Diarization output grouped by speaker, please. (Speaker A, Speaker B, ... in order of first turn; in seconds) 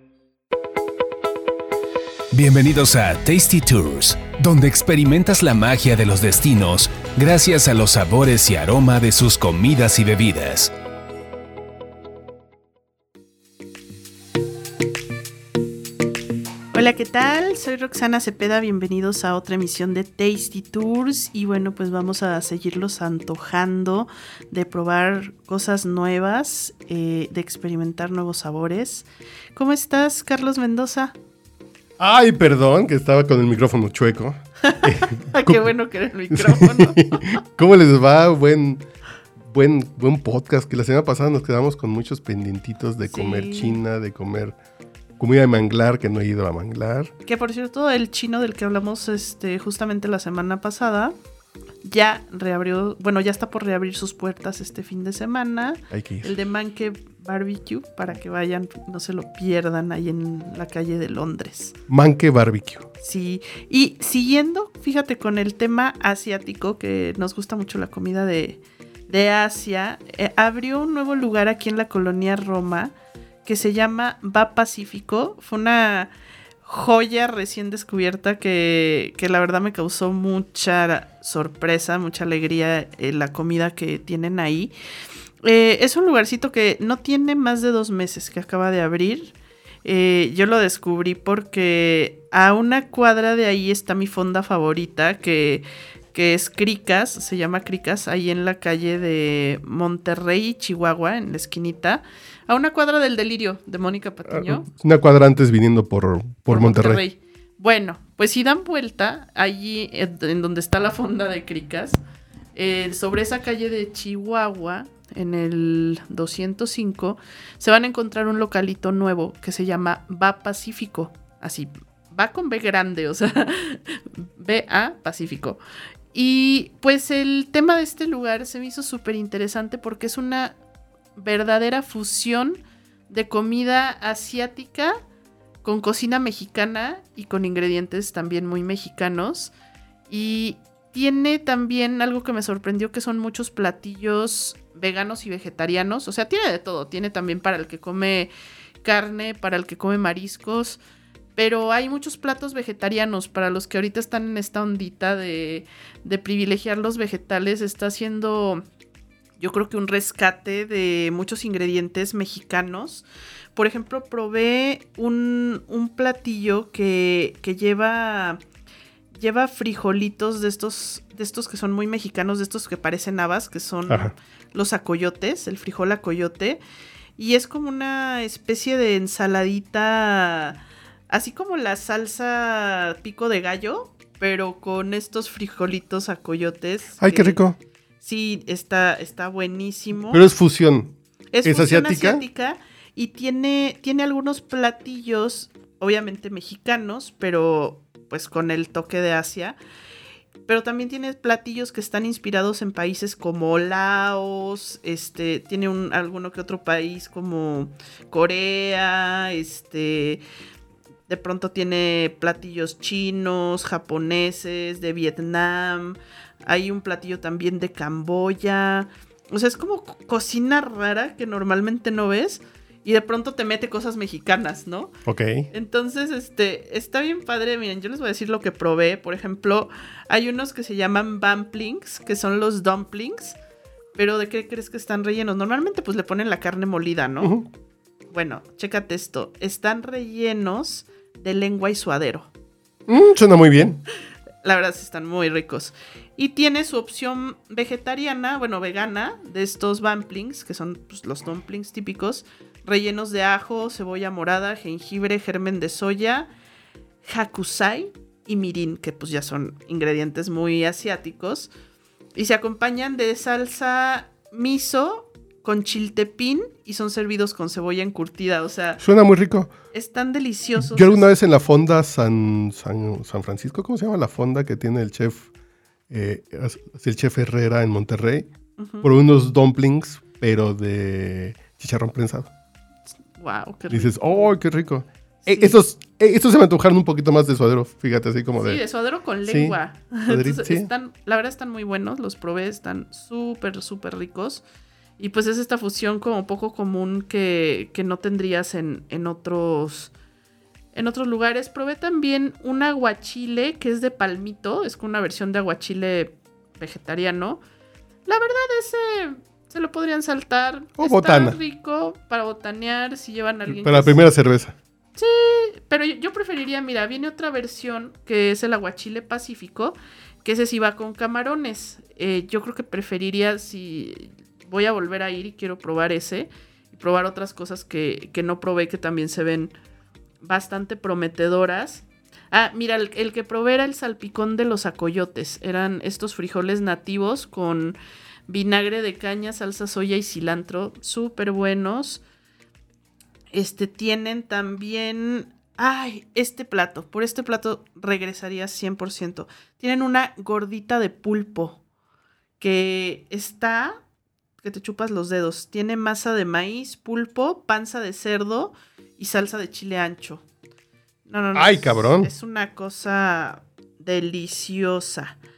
Speaker A: 2.3-10.7
Speaker B: 16.7-31.1, 34.6-37.3, 43.0-43.8, 47.2-51.1, 51.8-61.8, 63.0-76.1, 76.7-84.7, 85.4-104.7, 106.5-112.0, 112.5-125.6, 126.1-130.6, 131.2-135.0, 135.6-139.5, 140.1-148.3, 148.8-150.8, 151.4-158.6, 159.4-168.4, 169.1-176.6, 177.2-187.4, 188.0-190.2, 191.3-199.6, 200.5-210.2, 211.1-224.9, 225.5-233.4, 233.9-237.3, 238.1-242.3, 244.4-256.3, 257.0-261.5, 262.1-268.8, 269.7-271.1, 278.6-278.9, 283.2-284.3, 285.3-285.6, 288.4-294.4, 295.0-299.9, 300.7-307.4, 308.1-314.0, 315.0-329.6, 330.2-342.0, 343.3-351.6, 352.4-353.8, 354.4-360.2, 361.1-365.2
Speaker C: 32.0-35.7, 36.3-38.9, 39.5-44.6, 45.2-47.1, 55.9-56.3, 61.9-62.9, 104.3-107.0, 187.0-187.6, 190.1-192.2, 225.1-225.5, 237.2-237.5, 242.9-243.8, 268.8-269.5, 270.6-275.3, 275.9-278.3, 278.8-282.3, 283.7-288.6, 289.2-290.7, 310.8-311.4, 313.5-314.6, 361.4-362.1